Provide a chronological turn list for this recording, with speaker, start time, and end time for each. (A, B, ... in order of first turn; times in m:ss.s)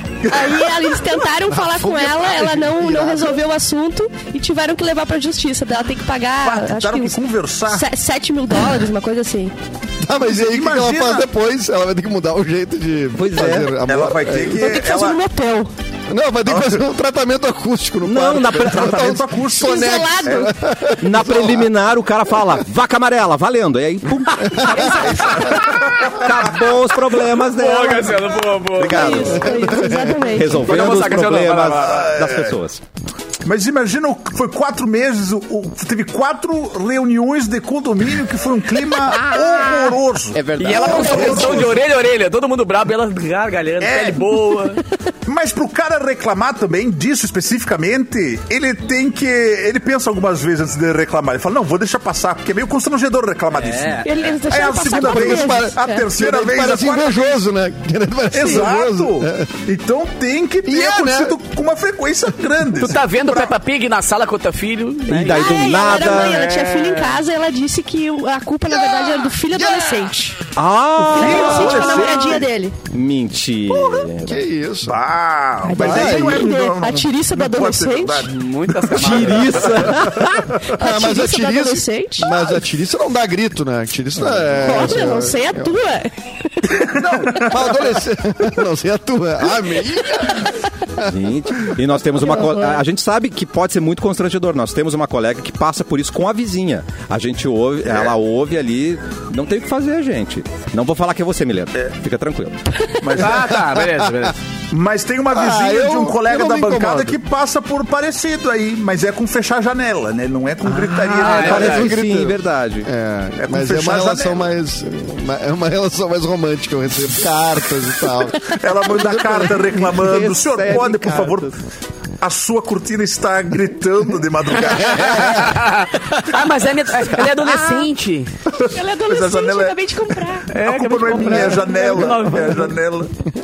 0:00.3-0:00.7 A
0:00.3-0:09.5 B
0:01.5-0:03.4 C
0:06.4-0:07.9 A
0:10.0-0:14.6 C
0:10.4-0:11.3 A
0:13.1-0:13.8 D
0:13.8-0:15.2 A
0:14.5-0:15.7 B
0:16.1-0:21.7 C
0:16.5-0:16.8 A
0:18.0-0:19.2 D
0:18.6-0:20.5 A
0:19.6-0:20.5 B
0:20.9-0:29.6 D
0:24.5-0:25.3 C
0:24.6-0:25.8 B
0:26.0-0:26.2 A
0:27.4-0:29.4 E
0:28.9-0:30.7 B
0:29.4-0:30.6 C
0:30.3-0:32.8 D
0:30.5-0:32.0 E
0:31.6-0:32.6 A
0:33.4-0:41.8 A
0:39.1-0:41.6 D
0:40.6-0:44.8 E
0:43.8-0:44.4 A
0:45.2-0:57.2 A
0:53.5-0:54.0 E
0:54.0-0:56.0 B
0:54.8-0:59.5 C
0:58.3-1:03.5 A
1:00.6-1:01.4 C
1:02.8-1:07.2 E
1:05.1-1:06.4 D
1:05.3-1:10.4 B
1:09.5-1:10.1 C
1:10.5-1:12.1 D
1:11.1-1:12.4 A
1:11.1-1:12.7 B
1:12.9-1:14.4 D
1:14.2-1:15.0 C
1:14.8-1:19.9 A
1:15.6-1:18.3 B
1:15.7-1:16.5 C
1:18.2-1:20.1 E
1:18.9-1:20.6 D
1:20.8-1:25.7 C
1:20.8-1:22.4 B
1:24.6-1:26.1 B
1:26.7-1:27.9 A
1:27.0-1:30.5 C
1:31.0-1:42.5 D
1:32.3-1:32.8 B
1:43.0-1:43.5 A
1:43.2-1:44.4 E
1:43.8-1:44.0 C
1:44.7-1:52.0 A
1:45.3-1:47.2 C
1:50.6-1:52.9 D
1:51.1-1:51.9 E
1:51.2-1:59.5 C
1:53.4-1:54.5 A
1:58.6-2:01.5 A
1:59.9-2:01.5 D
2:02.2-2:05.5 A
2:05.2-2:08.3 E
2:08.6-2:13.1 A
2:08.7-2:10.5 B
2:10.5-2:12.7 E
2:11.2-2:11.6 C